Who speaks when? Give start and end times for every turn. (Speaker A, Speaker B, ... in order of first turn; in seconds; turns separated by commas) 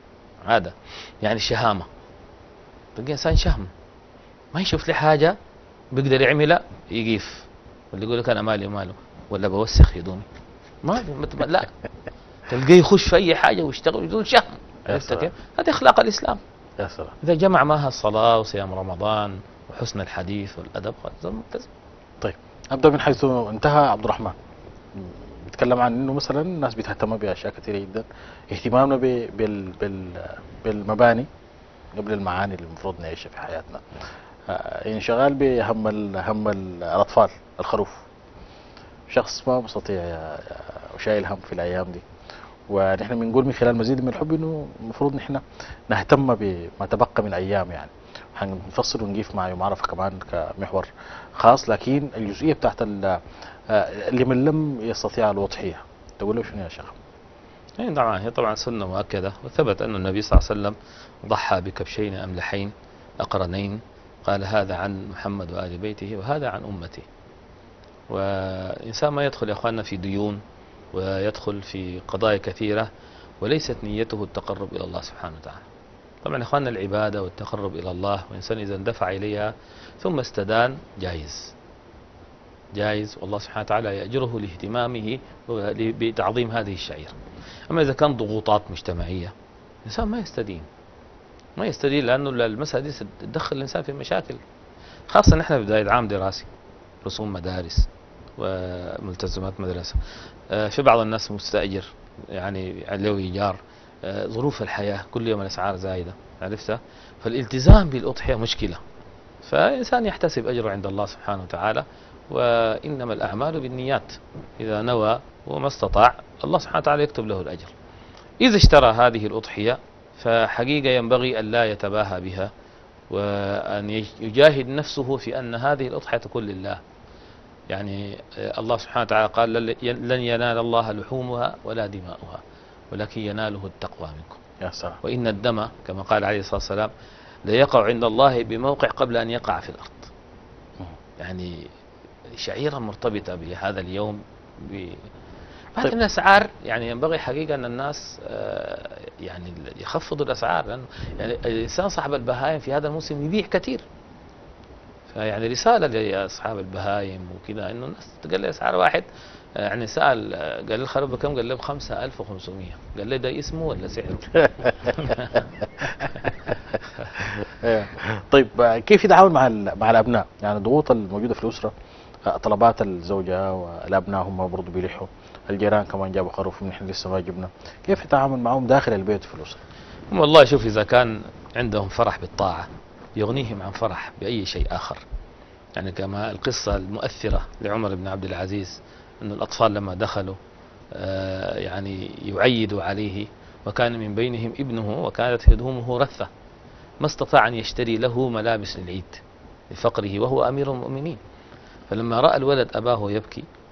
Speaker A: 0.5-1.9, Speaker A: 3.0-3.7, Speaker A: 4.5-5.4, Speaker A: 5.9-10.3, Speaker A: 10.8-11.7, Speaker A: 12.5-16.4, Speaker B: 14.9-15.3, Speaker B: 16.8-17.1, Speaker A: 17.2-21.7, Speaker B: 22.2-24.4, Speaker B: 25.0-31.3, Speaker B: 31.9-33.9, Speaker B: 34.5-38.1, Speaker B: 39.1-42.0, Speaker B: 42.7-57.0, Speaker A: 57.8-67.1, Speaker A: 68.1-70.4, Speaker A: 70.9-72.9, Speaker A: 73.4-75.6, Speaker A: 76.2-81.5, Speaker A: 82.7-87.2, Speaker A: 87.7-89.3, Speaker A: 89.8-90.7, Speaker A: 91.6-94.4, Speaker A: 95.1-96.5, Speaker A: 97.0-108.8, Speaker A: 109.4-117.7, Speaker A: 118.4-122.5, Speaker A: 123.1-126.8, Speaker A: 127.7-134.4, Speaker B: 134.6-135.0, Speaker A: 135.0-136.9, Speaker A: 137.4-140.1, Speaker A: 141.2-141.7, Speaker A: 142.3-145.0, Speaker A: 145.7-153.8, Speaker A: 155.1-165.4, Speaker B: 164.7-165.3, Speaker B: 165.8-166.5, Speaker B: 167.2-171.7, Speaker B: 172.3-179.6, Speaker A: 180.1-185.0, Speaker A: 185.8-190.4, Speaker A: 190.9-196.3, Speaker A: 197.0-201.2, Speaker A: 201.9-203.5